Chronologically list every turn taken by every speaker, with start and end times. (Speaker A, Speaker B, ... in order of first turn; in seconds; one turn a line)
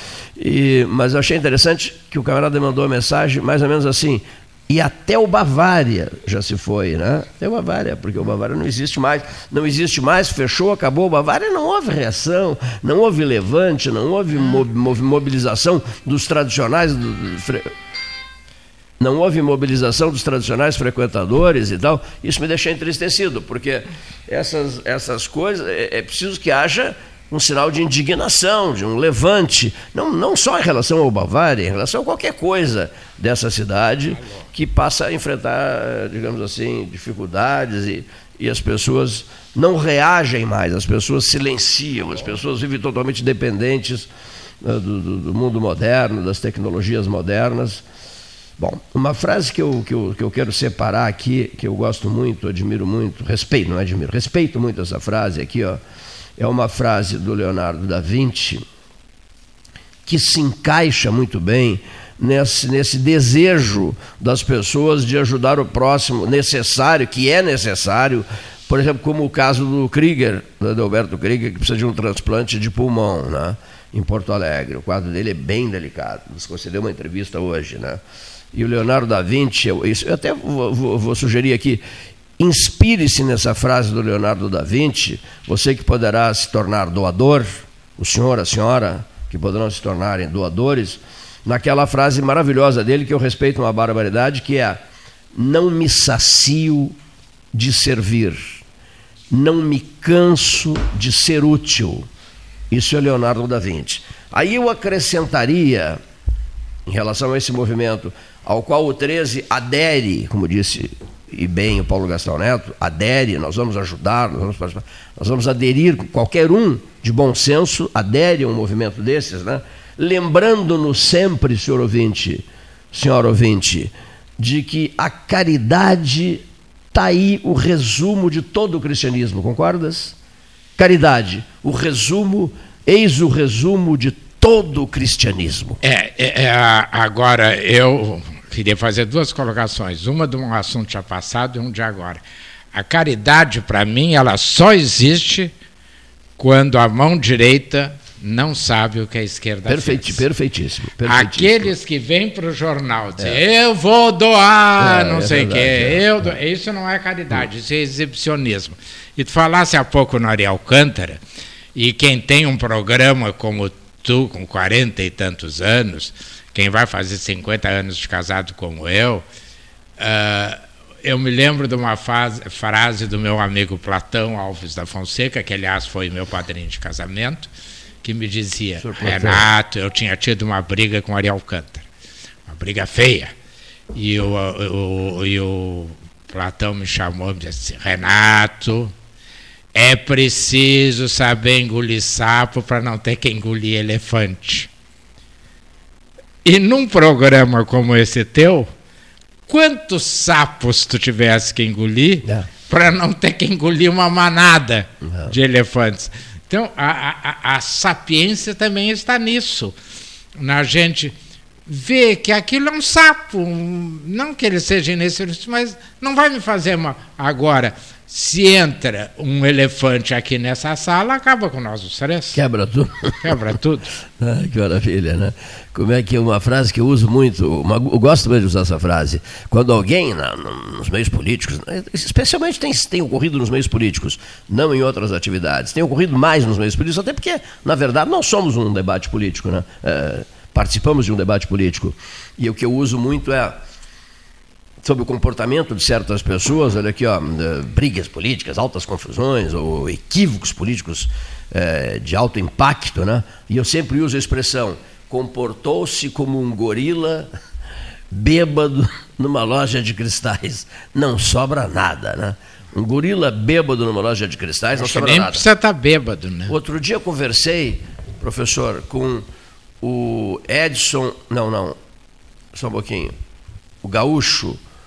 Speaker A: 0.4-17.7
Speaker A: 19.0-44.1
Speaker B: 34.1-34.5
Speaker A: 44.6-47.8
Speaker A: 48.6-55.8
Speaker A: 56.4-58.6
Speaker A: 60.1-78.0
Speaker A: 78.5-81.8
Speaker A: 82.4-94.8
Speaker A: 95.3-97.0
Speaker A: 97.5-98.6
Speaker A: 99.3-102.1
Speaker A: 102.7-106.0
Speaker A: 106.8-130.2
Speaker A: 130.8-135.8
Speaker B: 135.8-142.2
Speaker B: 142.7-145.5
Speaker B: 146.4-150.2
Speaker A: 149.7-151.7
Speaker B: 151.0-161.2
Speaker A: 154.8-156.3
Speaker B: 161.7-169.2
Speaker B: 170.0-177.5
Speaker B: 178.0-181.8
Speaker A: 178.8-179.5
Speaker B: 182.5-183.3
Speaker B: 183.9-188.9
Speaker B: 189.7-194.7
Speaker B: 196.4-198.7
Speaker B: 199.5-209.7
Speaker A: 202.2-202.5
Speaker A: 205.0-205.4
Speaker B: 210.4-211.1
Speaker B: 211.7-222.4
Speaker A: 222.3-223.4
Speaker B: 223.2-223.9
Speaker A: 224.2-243.6
Speaker A: 244.8-257.3
Speaker A: 258.1-265.5
Speaker B: 264.7-266.6
Speaker A: 266.5-269.3
Speaker A: 269.8-271.8
Speaker A: 272.5-273.1
Speaker A: 273.8-274.6